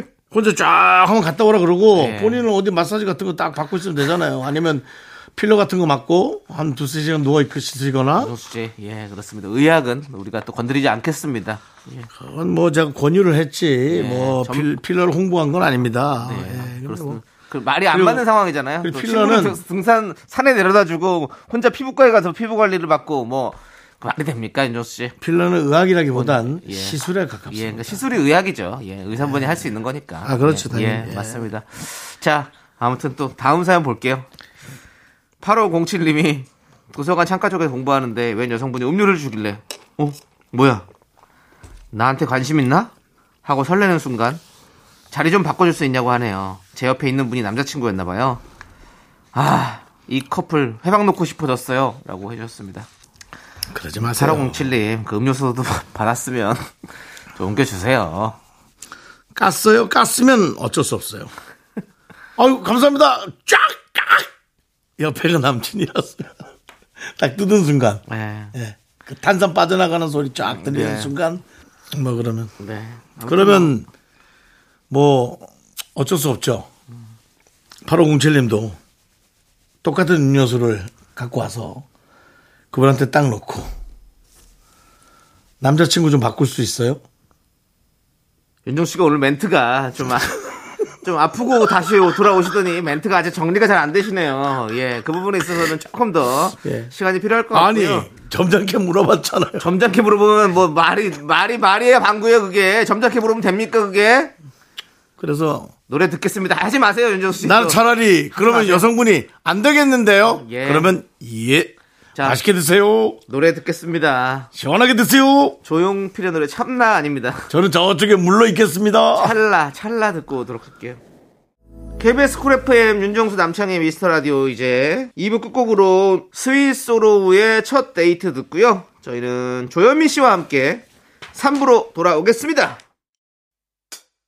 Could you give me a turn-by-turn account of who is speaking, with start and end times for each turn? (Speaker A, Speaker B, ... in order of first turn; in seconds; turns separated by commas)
Speaker A: 0.3-8.3, Speaker B: 1.9-2.5, Speaker B: 8.2-12.1, Speaker A: 12.1-17.2, Speaker B: 13.9-14.7, Speaker B: 16.2-25.2, Speaker A: 17.9-18.3, Speaker A: 18.8-19.6, Speaker A: 25.2-28.0, Speaker B: 26.1-34.3, Speaker A: 30.2-31.4, Speaker B: 35.4-40.9, Speaker B: 41.9-42.9, Speaker B: 43.5-44.4, Speaker B: 45.1-48.4, Speaker B: 49.3-52.9, Speaker A: 53.7-54.7, Speaker B: 54.1-56.7, Speaker B: 57.4-58.4, Speaker A: 59.4-61.3, Speaker A: 62.4-64.3, Speaker A: 65.0-66.3, Speaker A: 67.1-72.5, Speaker B: 68.1-68.5, Speaker B: 70.4-71.1, Speaker B: 72.6-73.7, Speaker A: 73.2-73.9, Speaker A: 74.9-76.7, Speaker A: 77.8-78.8, Speaker A: 79.8-81.8, Speaker A: 82.7-83.7, Speaker A: 85.6-87.0, Speaker B: 88.7-98.1, Speaker A: 96.6-96.9, Speaker A: 97.5-99.7, Speaker B: 99.6-104.3, Speaker A: 105.2-105.7, Speaker B: 105.9-107.8, Speaker A: 107.4-113.2, Speaker B: 108.3-108.9, Speaker B: 110.3-110.9, Speaker B: 112.2-112.4, Speaker B: 113.3-114.5, Speaker A: 114.5-115.6, Speaker B: 115.6-117.5, Speaker A: 117.5-119.3, Speaker B: 119.2-121.0, Speaker B: 122.0-132.8